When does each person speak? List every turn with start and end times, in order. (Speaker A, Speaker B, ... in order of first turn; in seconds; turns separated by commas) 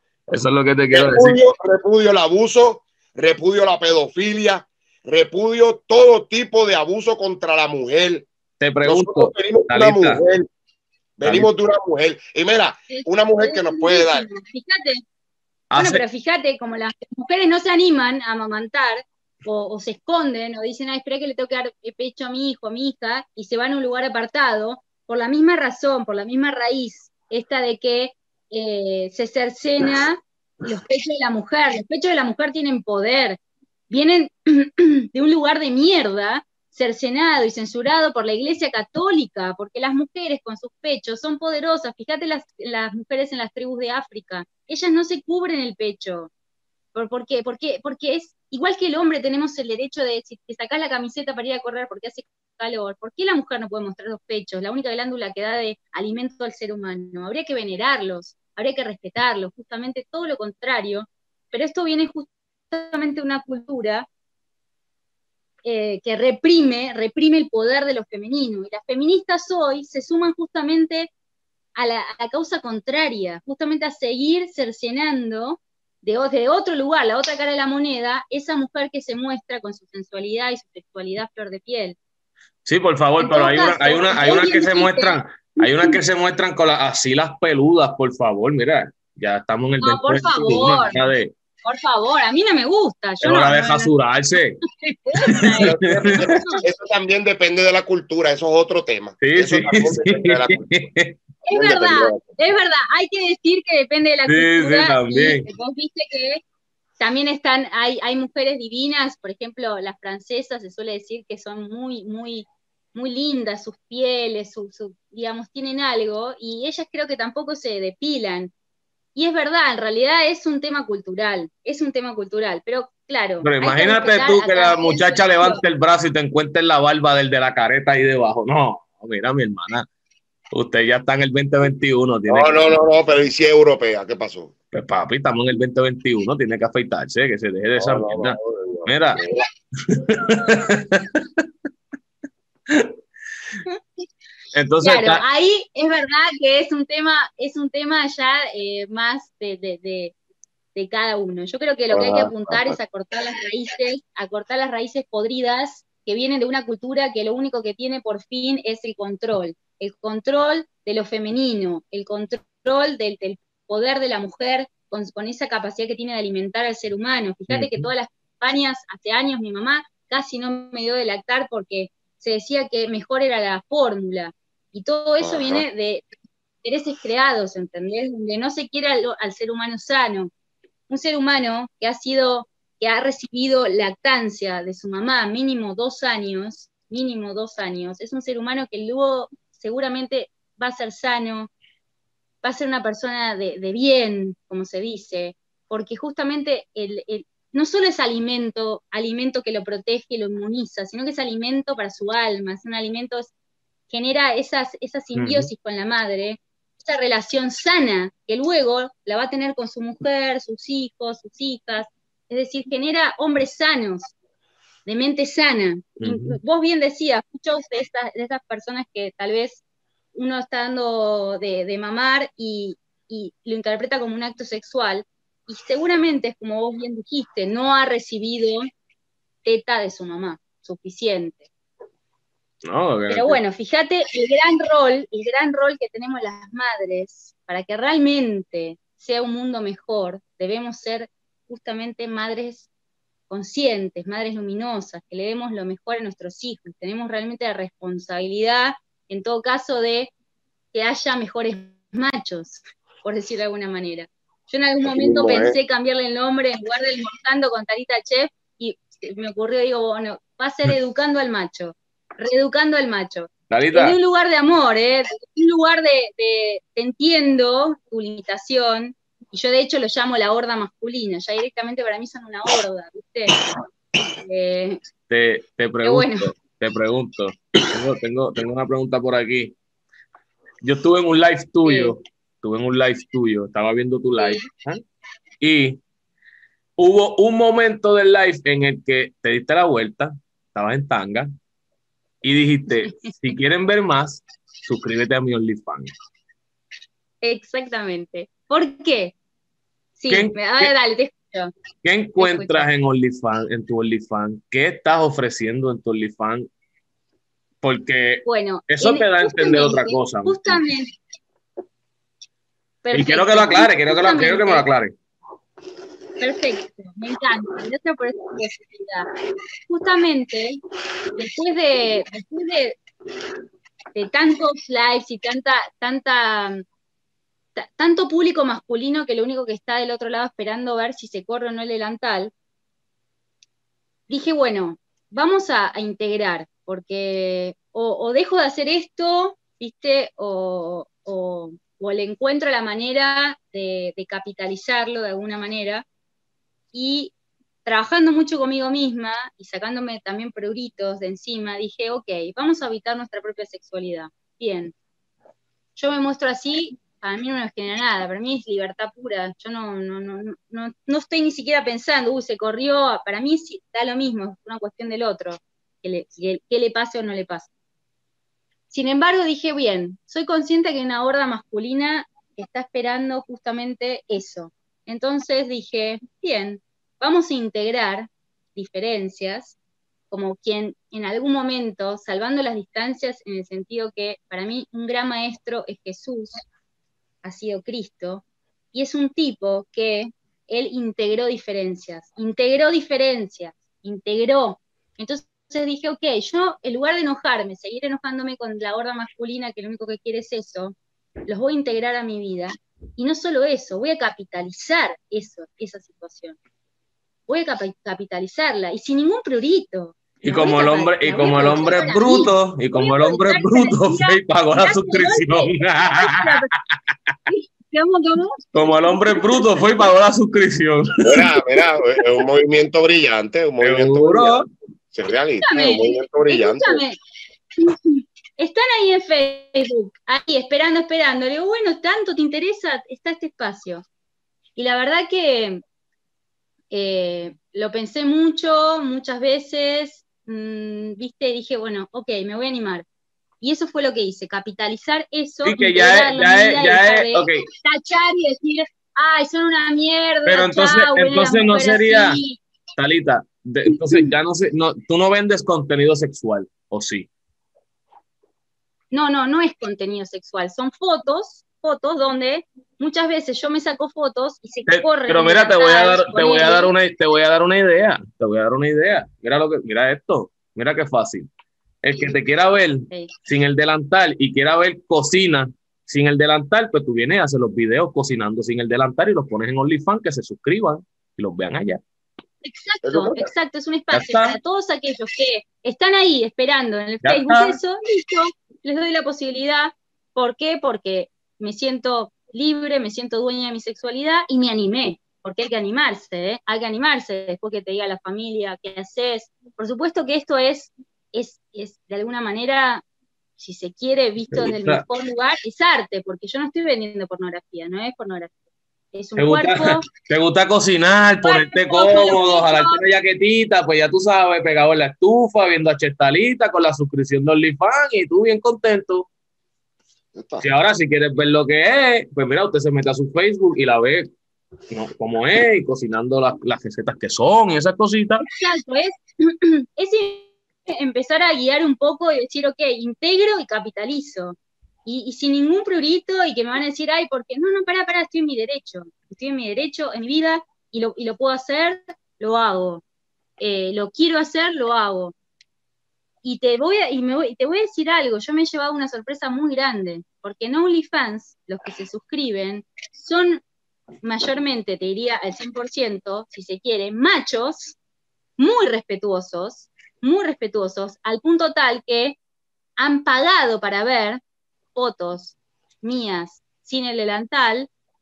Speaker A: 0.3-1.4, Speaker B: 0.9-8.3, Speaker A: 8.6-10.2, Speaker B: 8.8-10.5, Speaker B: 11.2-14.2, Speaker C: 12.9-15.0, Speaker A: 15.7-16.0, Speaker C: 15.8-46.3, Speaker C: 46.9-64.1, Speaker C: 65.6-71.1, Speaker C: 71.8-82.0, Speaker A: 82.7-91.3, Speaker C: 83.2-86.0, Speaker C: 89.8-91.0, Speaker C: 91.6-93.9, Speaker A: 93.2-94.6, Speaker C: 94.8-96.6, Speaker A: 95.3-96.4, Speaker B: 95.6-100.7, Speaker A: 99.2-101.2, Speaker C: 101.5-106.4, Speaker B: 101.5-102.2, Speaker A: 104.3-105.5, Speaker C: 107.0-118.5, Speaker C: 119.1-125.6, Speaker A: 123.4-129.8, Speaker A: 130.5-132.7, Speaker B: 132.3-134.5, Speaker A: 134.7-139.2, Speaker B: 137.8-139.4, Speaker A: 139.8-141.2, Speaker A: 142.7-142.9, Speaker A: 144.5-145.2, Speaker C: 144.8-150.1, Speaker C: 150.7-176.1, Speaker B: 151.9-152.8, Speaker A: 167.5-167.9, Speaker B: 175.2-175.6, Speaker C: 176.6-180.3, Speaker C: 180.9-191.5, Speaker C: 192.4-203.3, Speaker C: 203.9-214.1, Speaker A: 205.1-205.5, Speaker C: 214.8-219.6, Speaker A: 216.0-216.4, Speaker C: 220.1-228.7, Speaker C: 229.4-231.5, Speaker A: 232.6-233.4, Speaker C: 233.1-242.7, Speaker C: 243.3-250.1, Speaker C: 250.7-273.4, Speaker B: 254.8-255.6, Speaker A: 263.5-264.0, Speaker C: 274.1-274.8, Speaker A: 275.1-279.5, Speaker C: 275.8-276.3, Speaker A: 280.6-284.8, Speaker C: 281.6-281.9, Speaker C: 284.2-284.4, Speaker A: 285.4-285.8, Speaker A: 286.8-291.3, Speaker A: 292.2-295.9, Speaker C: 292.8-293.4, Speaker C: 297.2-299.1, Speaker C: 300.0-301.5, Speaker A: 300.1-300.7, Speaker A: 301.8-306.5, Speaker C: 302.2-302.6, Speaker A: 307.6-310.6, Speaker C: 308.2-310.9, Speaker C: 312.8-314.6, Speaker A: 312.9-314.9, Speaker C: 316.2-319.1, Speaker C: 319.7-320.6, Speaker C: 321.1-322.8, Speaker C: 323.9-326.6, Speaker C: 327.6-332.3, Speaker C: 334.1-345.9, Speaker C: 346.7-347.1, Speaker C: 347.6-354.7, Speaker C: 355.8-367.5, Speaker C: 368.7-379.6, Speaker C: 380.1-386.4, Speaker C: 387.2-400.8, Speaker C: 401.3-406.4, Speaker C: 407.3-416.5, Speaker A: 410.2-416.4, Speaker C: 417.3-419.6, Speaker A: 418.5-421.3, Speaker B: 421.0-426.8, Speaker A: 423.6-424.4, Speaker C: 425.4-426.9, Speaker C: 427.6-433.8, Speaker C: 434.6-435.6, Speaker C: 436.7-442.8, Speaker C: 443.4-452.4, Speaker A: 445.4-447.5, Speaker A: 450.2-452.2, Speaker A: 452.8-457.1, Speaker C: 453.7-454.1, Speaker C: 458.9-466.7, Speaker A: 464.7-471.3, Speaker A: 471.8-481.8, Speaker C: 482.4-502.8, Speaker B: 482.8-483.3, Speaker A: 483.9-484.4, Speaker A: 487.0-487.6, Speaker C: 503.4-508.3, Speaker A: 504.3-504.8, Speaker C: 508.9-509.9, Speaker A: 509.2-519.1, Speaker C: 511.2-512.8, Speaker B: 520.1-520.5, Speaker A: 520.4-524.1, Speaker A: 524.7-528.2, Speaker C: 528.3-542.8, Speaker C: 543.4-545.1, Speaker C: 546.2-553.4, Speaker C: 554.0-557.8, Speaker C: 558.4-562.2, Speaker C: 562.8-564.2, Speaker C: 564.7-567.7